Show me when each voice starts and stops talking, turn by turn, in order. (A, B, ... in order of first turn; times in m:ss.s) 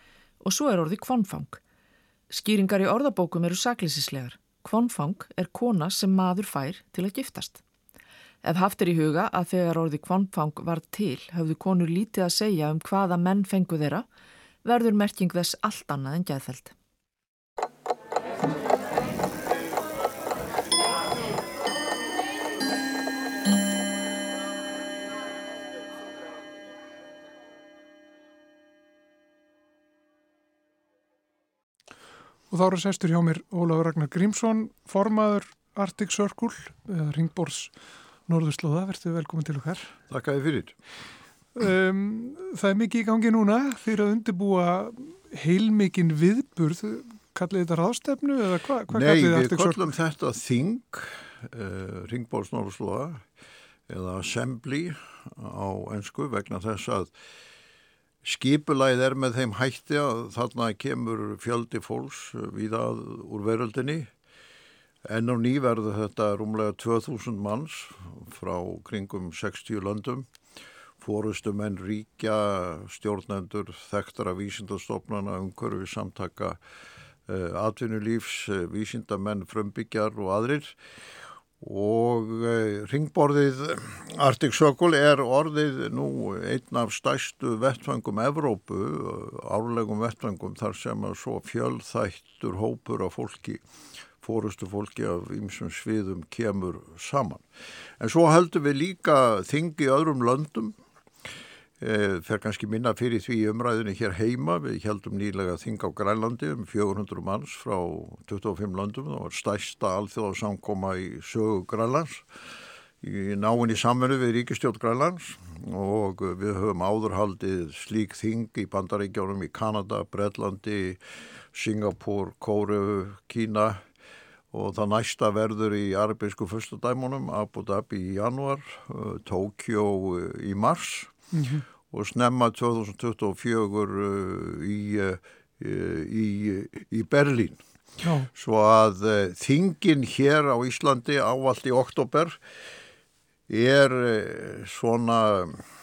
0:00.4-0:01.6 A
0:02.3-0:07.6 A
0:08.4-0:14.1 A
0:14.6-0:16.7 A
0:32.5-0:37.7 B
0:38.3-0:39.9 B
0:40.1-0:40.7 C
0:41.6-0:49.9 B
0:48.9-0:53.2 C
0:53.9-0:57.1 C
0:58.2-1:04.1 C
1:05.1-1:10.3 C
1:11.0-1:16.6 C
1:17.3-1:20.8 C
1:21.6-1:33.6 C
1:34.2-1:37.4 C
1:38.0-1:40.8 C
1:41.8-1:52.2 C
1:53.0-2:01.0 C
2:01.5-2:03.8 C
2:04.5-2:11.2 C
2:11.3-2:11.6 B
2:11.9-2:17.6 C
2:18.0-2:18.3 B
2:18.3-2:22.4 C
2:23.5-2:25.6 C